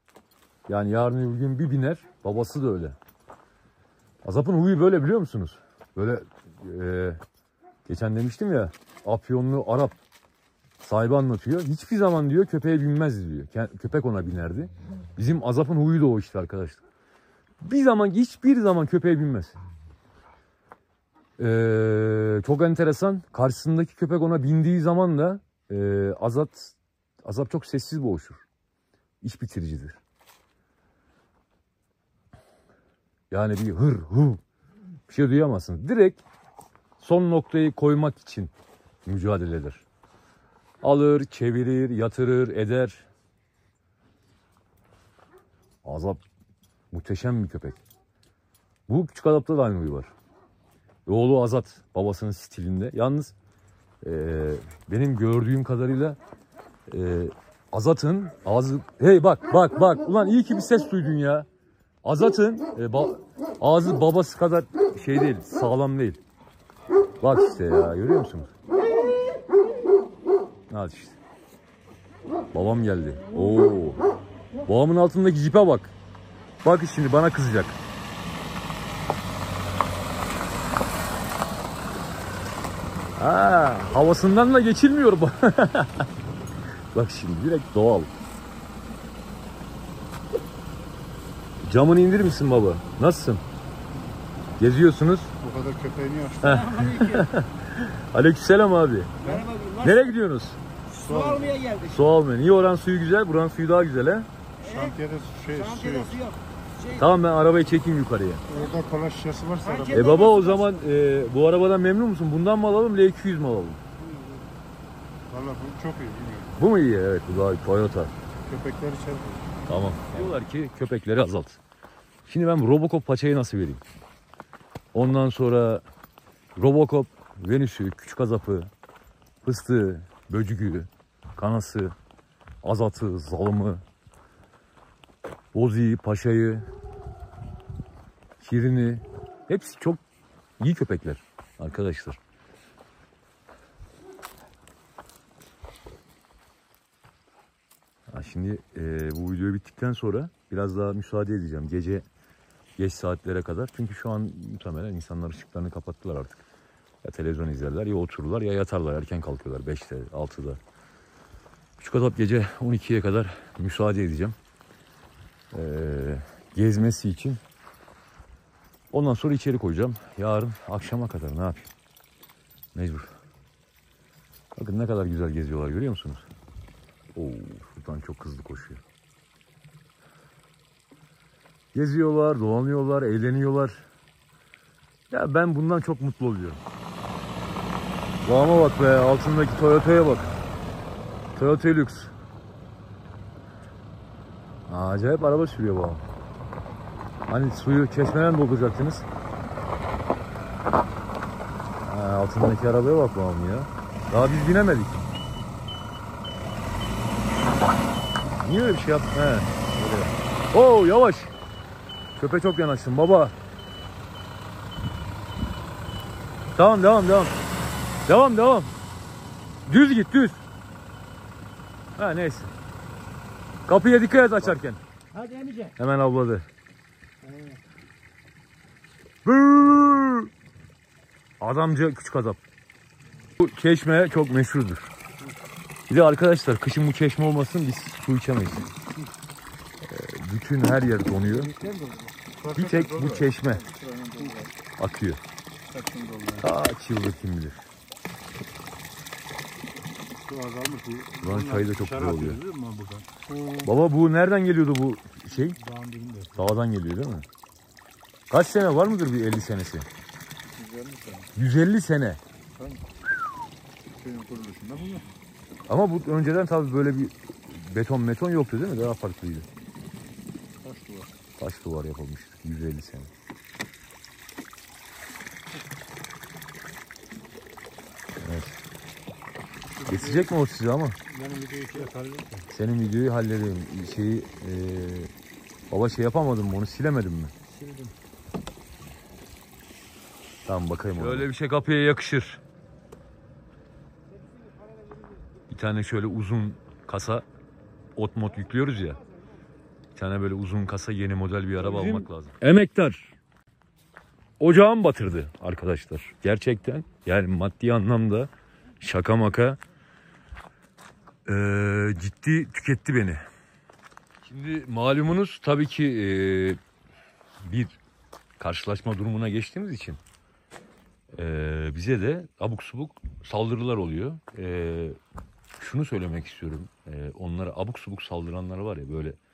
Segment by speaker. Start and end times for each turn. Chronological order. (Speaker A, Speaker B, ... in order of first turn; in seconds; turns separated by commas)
Speaker A: 0.7-3.0, Speaker A: 4.2-7.2, Speaker A: 7.9-10.0, Speaker A: 10.8-16.8, Speaker A: 17.6-19.6, Speaker A: 21.4-28.4, Speaker A: 29.2-30.0, Speaker A: 33.3-34.4, Speaker A: 35.1-36.2, Speaker A: 37.0-38.5, Speaker A: 39.1-39.8, Speaker A: 40.8-43.1, Speaker A: 45.8-46.2, Speaker A: 46.9-47.8, Speaker A: 48.9-50.1, Speaker A: 51.1-53.3, Speaker A: 54.0-56.2, Speaker A: 56.9-61.5, Speaker A: 62.0-66.2, Speaker A: 67.2-68.5, Speaker A: 70.7-71.2, Speaker A: 72.5-74.0, Speaker A: 74.7-76.0, Speaker A: 76.6-77.8, Speaker A: 83.2-86.1, Speaker A: 86.9-88.1, Speaker A: 91.6-93.4, Speaker A: 94.6-95.3, Speaker B: 95.4-96.7, Speaker A: 96.4-99.1, Speaker C: 96.8-97.2, Speaker B: 99.2-99.5, Speaker C: 99.2-100.0, Speaker A: 99.8-100.6, Speaker B: 101.0-101.7, Speaker C: 101.1-101.9, Speaker A: 101.8-104.3, Speaker B: 104.6-106.3, Speaker C: 105.8-106.4, Speaker A: 106.9-108.5, Speaker B: 108.5-110.2, Speaker A: 109.9-113.8, Speaker B: 115.3-116.5, Speaker A: 116.6-118.1, Speaker B: 118.5-119.5, Speaker A: 119.7-121.6, Speaker A: 122.3-123.8, Speaker A: 124.9-125.8, Speaker A: 126.6-128.7, Speaker A: 129.4-131.9, Speaker A: 132.6-133.8, Speaker A: 135.5-136.7, Speaker A: 138.4-140.0, Speaker A: 140.6-142.2, Speaker A: 148.1-152.1, Speaker A: 152.8-156.4, Speaker A: 157.0-160.6, Speaker A: 161.8-164.4, Speaker A: 165.5-167.4, Speaker A: 168.9-171.7, Speaker A: 172.8-173.1, Speaker A: 174.6-176.3, Speaker A: 177.2-178.8, Speaker A: 181.7-183.8, Speaker A: 185.1-186.6, Speaker A: 188.2-190.3, Speaker A: 191.3-192.1, Speaker A: 194.7-196.0, Speaker A: 197.3-199.1, Speaker A: 201.9-205.1, Speaker A: 208.4-211.3, Speaker A: 212.2-213.3, Speaker A: 216.6-217.3, Speaker A: 218.1-218.7, Speaker A: 219.7-220.4, Speaker A: 222.0-222.5, Speaker A: 223.7-224.8, Speaker C: 225.3-225.5, Speaker A: 225.7-226.4, Speaker A: 229.2-230.3, Speaker A: 231.4-232.4, Speaker A: 233.4-234.9, Speaker A: 235.9-238.7, Speaker A: 239.8-241.5, Speaker B: 241.6-244.5, Speaker A: 242.5-243.7, Speaker A: 244.8-245.2, Speaker B: 245.7-246.4, Speaker A: 246.4-247.6, Speaker B: 250.2-253.7, Speaker A: 251.2-252.4, Speaker A: 253.6-255.6, Speaker B: 255.6-256.4, Speaker A: 256.4-257.3, Speaker A: 258.3-259.9, Speaker B: 260.5-261.3, Speaker A: 261.4-262.2, Speaker B: 262.6-262.9, Speaker B: 264.0-265.1, Speaker A: 265.7-269.5, Speaker B: 270.6-271.1, Speaker A: 271.4-273.1, Speaker A: 278.2-278.6, Speaker B: 279.8-280.3, Speaker A: 279.9-281.0, Speaker B: 281.1-282.5, Speaker A: 282.5-285.1, Speaker A: 285.7-287.3, Speaker A: 290.5-292.4, Speaker A: 295.5-297.2, Speaker A: 298.0-299.0, Speaker A: 299.9-303.1, Speaker A: 304.4-308.3, Speaker A: 308.8-309.6, Speaker A: 311.3-313.2, Speaker A: 314.2-316.6, Speaker A: 317.4-317.8, Speaker A: 318.4-320.0, Speaker A: 321.1-325.0, Speaker A: 325.6-329.2